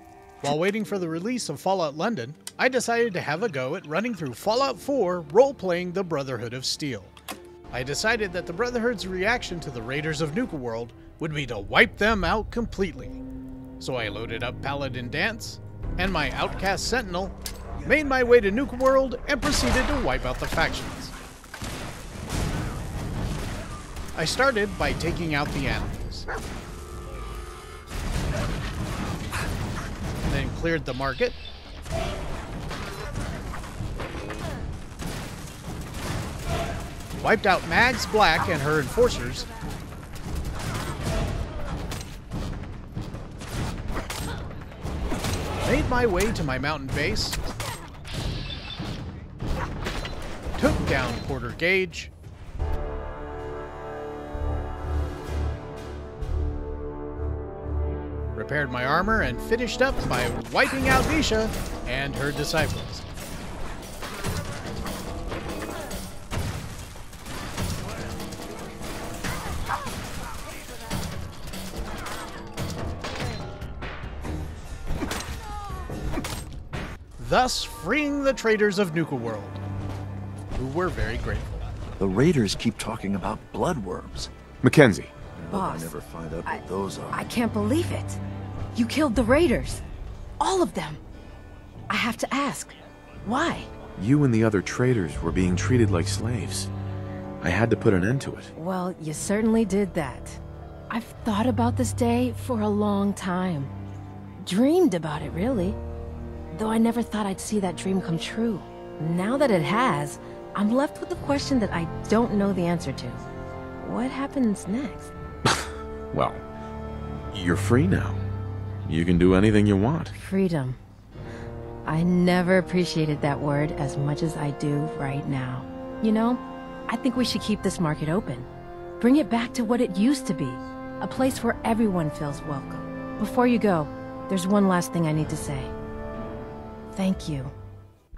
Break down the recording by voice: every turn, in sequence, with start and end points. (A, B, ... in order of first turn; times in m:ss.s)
0:00.4-0:07.1 A
0:07.7-0:13.2 A
0:13.8-0:21.1 A
0:24.2-0:26.3 A
0:30.2-0:31.4 A
0:37.1-0:39.5 A
0:45.6-0:47.4 A
0:50.6-0:52.1 A
0:58.4-1:03.0 A
1:17.2-1:19.6 A
1:20.6-1:21.5 A
1:22.0-1:24.3 B
1:24.6-1:25.1 C
1:25.4-1:27.3 B
1:25.5-1:28.2 D
1:28.8-1:29.8 D
1:30.4-1:31.0 D
1:31.9-1:33.7 D
1:34.0-1:36.7 C
1:37.4-1:38.5 C
1:38.6-1:43.7 D
1:44.4-1:45.8 D
1:46.5-1:53.2 D
1:53.8-1:55.1 D
1:56.1-1:56.4 C
1:57.3-1:58.2 C
1:58.8-2:00.1 C
2:00.1-2:00.8 D
2:01.8-2:08.5 D
2:09.0-2:15.7 D
2:17.0-2:17.5 D